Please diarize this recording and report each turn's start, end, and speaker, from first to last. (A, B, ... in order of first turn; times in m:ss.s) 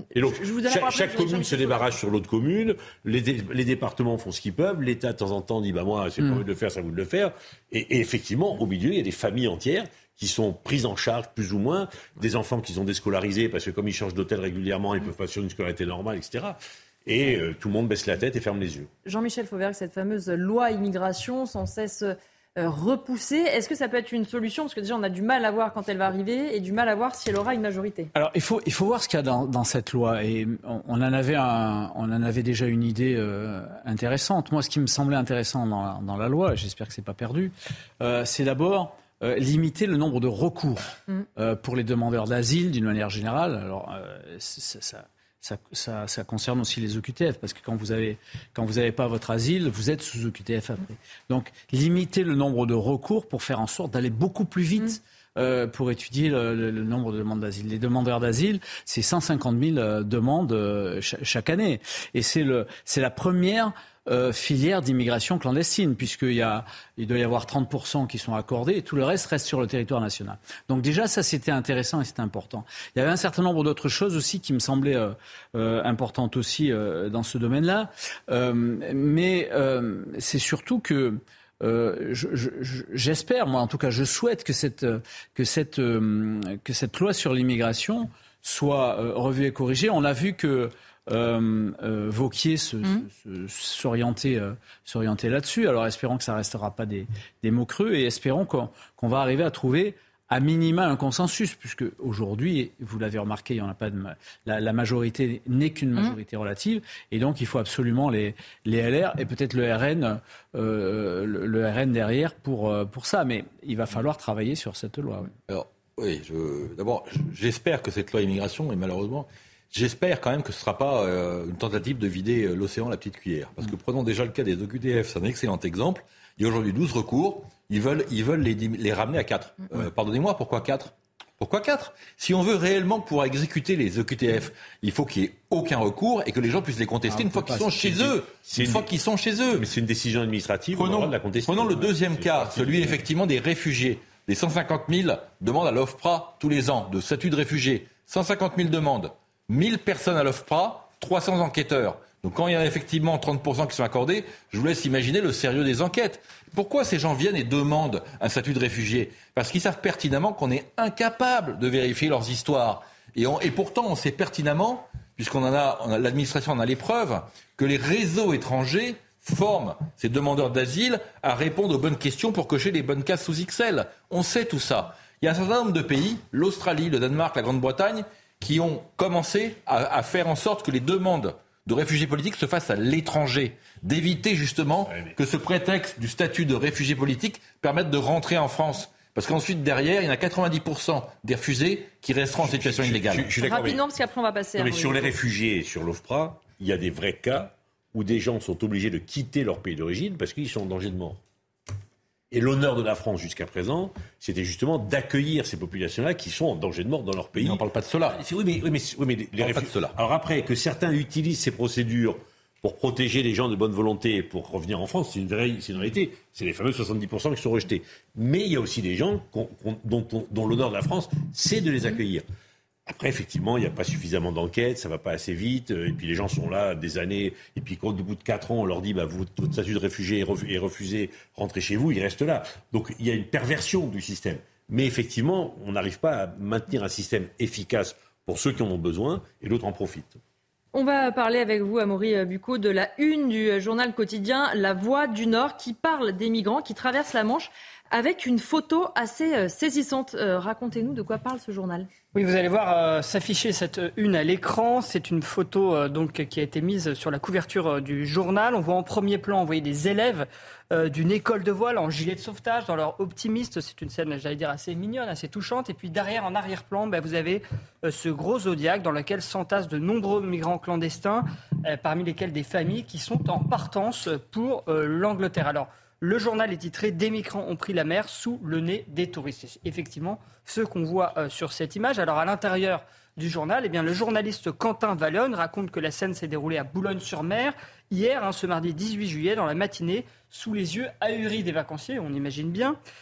0:00.1-0:18.9 A
0:00.2-0:01.9 B
0:19.0-0:28.1 B
0:28.1-1:55.3 C
1:55.5-2:19.7 D
2:18.4-2:18.9 A
2:19.5-2:23.0 A
2:20.7-3:13.3 D
3:04.9-3:05.1 A
3:12.4-3:13.8 A
3:13.4-3:15.2 B
3:14.5-3:21.2 A
3:22.3-3:42.2 A
3:27.4-3:28.2 D
3:29.4-3:30.0 D
3:42.9-4:00.2 A
4:00.7-4:11.9 B
4:12.1-4:52.8 E